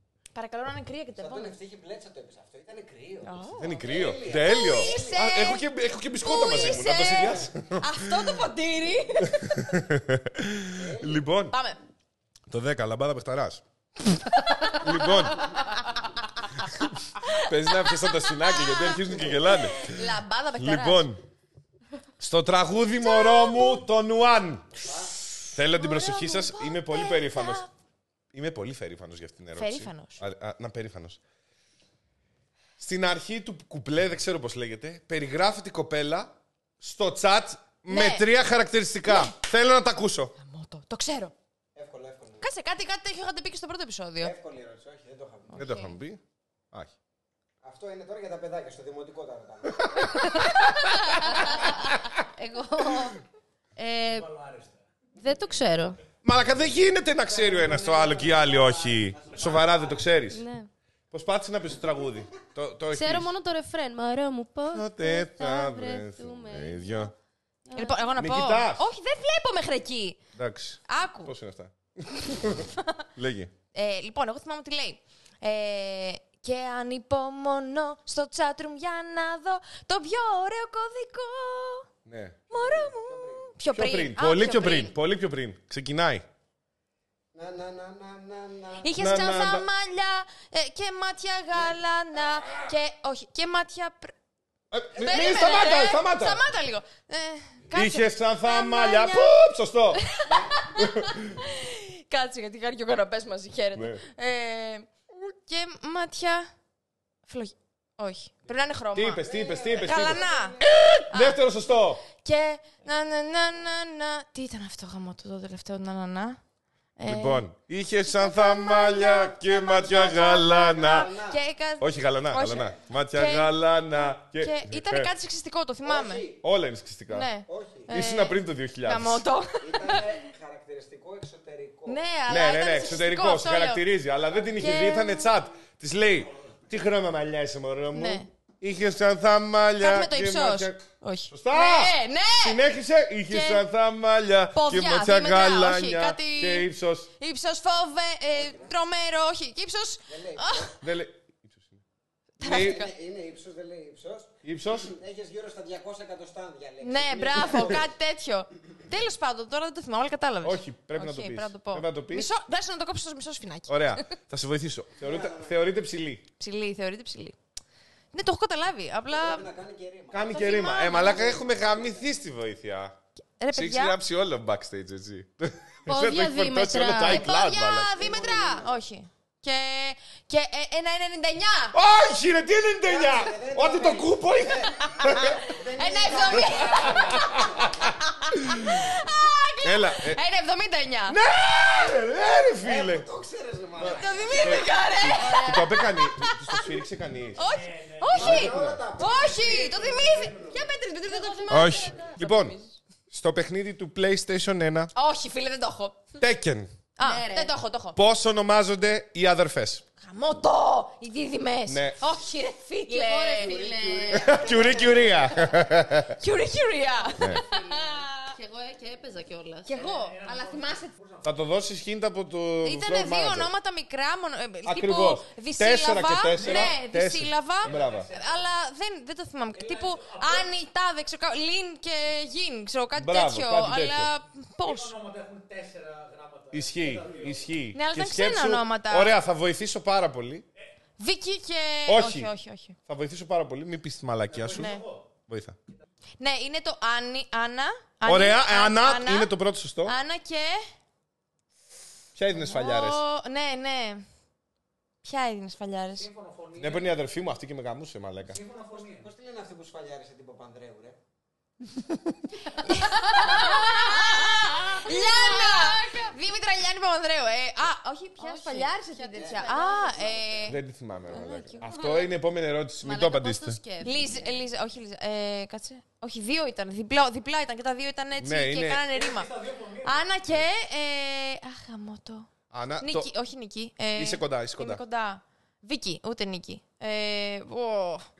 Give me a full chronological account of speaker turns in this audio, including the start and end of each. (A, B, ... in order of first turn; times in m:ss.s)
0:00.3-0:01.6 A
0:01.2-0:05.3 B
0:03.2-0:05.6 A
0:03.6-0:08.3 C
0:06.2-0:09.6 A
0:06.8-0:07.3 B
0:09.2-0:11.6 C
0:10.8-0:11.3 B
0:11.5-0:11.8 A
0:12.5-0:13.6 C
0:14.3-0:16.5 A
0:14.8-0:15.6 C
0:16.6-0:21.2 C
0:17.2-0:21.1 A
0:22.2-0:24.8 C
0:23.0-0:23.8 A
0:24.8-0:25.1 B
0:25.5-0:27.6 C
0:25.7-0:27.7 A
0:28.3-0:31.2 C
0:29.6-0:30.2 A
0:32.8-0:40.4 C
0:37.9-0:38.2 A
0:39.1-0:39.3 A
0:40.4-0:41.3 A
0:41.8-0:42.5 B
0:42.4-0:44.4 A
0:44.2-0:45.6 B
0:45.5-0:45.9 A
0:45.6-0:46.2 C
0:47.6-0:50.2 B
0:49.7-0:52.2 C
0:51.1-0:53.2 D
0:53.8-0:54.3 D
0:54.2-0:54.7 E
0:55.2-0:56.0 D
0:56.2-1:00.4 C
0:57.5-0:59.8 B
1:00.3-1:00.7 D
1:01.1-1:03.3 C
1:02.9-1:07.1 D
1:04.7-1:07.1 C
1:07.7-1:08.1 D
1:07.7-1:10.2 A
1:08.2-1:08.9 C
1:10.4-1:13.5 C
1:10.9-1:11.3 A
1:13.7-1:21.9 A
1:22.1-1:22.4 C
1:22.5-1:23.5 B
1:22.5-1:25.0 A
1:23.7-1:26.2 C
1:27.3-1:28.9 B
1:28.8-1:34.1 A
1:29.0-1:29.7 C
1:34.7-1:36.4 C
1:35.0-1:39.4 A
1:37.7-1:40.0 C
1:40.0-1:46.5 A
1:40.2-1:40.7 B
1:40.8-1:41.4 C
1:43.8-1:44.0 C
1:47.3-1:51.4 A
1:49.0-1:52.0 C
1:49.2-1:50.7 B
1:52.1-1:56.4 A
1:57.0-1:57.4 A
1:57.1-2:01.1 C
1:58.1-2:03.5 A
2:00.7-2:01.4 B
2:01.8-2:05.1 C
2:04.3-2:06.3 A
2:05.8-2:06.4 B
2:06.4-2:07.3 C
2:07.1-2:10.2 A
2:07.5-2:07.9 B
2:07.9-2:09.2 C
2:09.6-2:12.0 B
2:11.9-2:13.8 A
2:12.3-2:27.1 C
2:14.6-2:15.3 A
2:17.9-2:18.3 A
2:19.8-2:22.6 A
2:23.3-2:23.6 A
2:24.5-2:30.8 A
2:28.3-2:28.7 B
2:30.1-2:30.8 B
2:30.8-2:31.8 C
2:32.4-2:32.8 C
2:32.4-2:32.9 A
2:32.4-2:37.9 B
2:34.4-2:34.9 C
2:36.8-2:44.0 A
2:40.4-2:42.3 C
2:43.7-2:46.2 C
2:45.0-2:45.6 B
2:46.4-2:47.4 A
2:48.1-2:49.5 A
2:49.1-2:52.0 B
2:50.1-2:53.0 C
2:50.3-2:51.4 A
2:53.4-2:54.0 A
2:53.5-2:57.9 C
2:55.9-2:57.3 D
2:57.0-3:01.8 A
2:58.0-2:58.8 B
3:01.7-3:05.5 C
3:02.8-3:07.9 B
3:05.0-3:07.4 A
3:06.4-3:08.9 C
3:08.0-3:11.2 A
3:09.6-3:10.2 C
3:11.1-3:13.1 C
3:12.6-3:14.4 B
3:13.8-3:17.5 C
3:13.8-3:16.8 A
3:15.1-3:15.6 D
3:17.4-3:22.8 A
3:17.6-3:18.1 E
3:18.1-3:20.6 B
3:18.1-3:18.8 C
3:21.1-3:22.1 D
3:21.5-3:22.6 C
3:23.1-3:24.9 C
3:25.0-3:26.1 A
3:26.2-3:26.7 C
3:27.0-3:28.0 A
3:27.0-3:27.5 D
3:28.0-3:29.8 C
3:30.0-3:34.4 A
3:31.7-3:32.0 C
3:32.9-3:35.0 D
3:33.4-3:35.5 B
3:34.1-3:36.2 C
3:36.2-3:38.4 A
3:37.2-3:39.9 D
3:39.6-3:40.9 A
3:39.9-3:41.2 E
3:41.2-3:43.5 C
3:42.6-3:55.0 A
3:44.6-3:48.1 C
3:46.4-3:46.7 E
3:47.7-3:48.4 E
3:49.6-3:50.4 E
3:53.0-3:54.1 C
3:54.6-3:57.4 E
3:56.5-4:00.4 C
3:57.7-3:59.1 A
4:01.0-4:02.8 A
4:01.9-4:02.3 C
4:02.9-4:05.6 C
4:04.3-4:05.0 E
4:04.5-4:04.8 A
4:06.2-4:09.3 A
4:08.0-4:10.0 C
4:09.8-4:10.6 A
4:12.2-4:13.0 C
4:12.4-4:14.0 A
4:15.0-4:16.1 A
4:16.0-4:16.9 E
4:16.6-4:18.4 C
4:18.3-4:19.1 E
4:18.8-4:21.0 B
4:22.6-4:30.6 A
4:22.9-4:26.1 D
4:28.2-4:30.1 D
4:29.1-4:30.5 B
4:30.5-4:33.6 C
4:31.1-4:32.0 A
4:32.8-4:34.3 D
4:33.8-4:42.3 A
4:38.2-4:38.8 C
4:39.0-4:39.9 E
4:42.5-4:43.1 C
4:42.8-4:48.1 A
4:44.0-4:44.8 C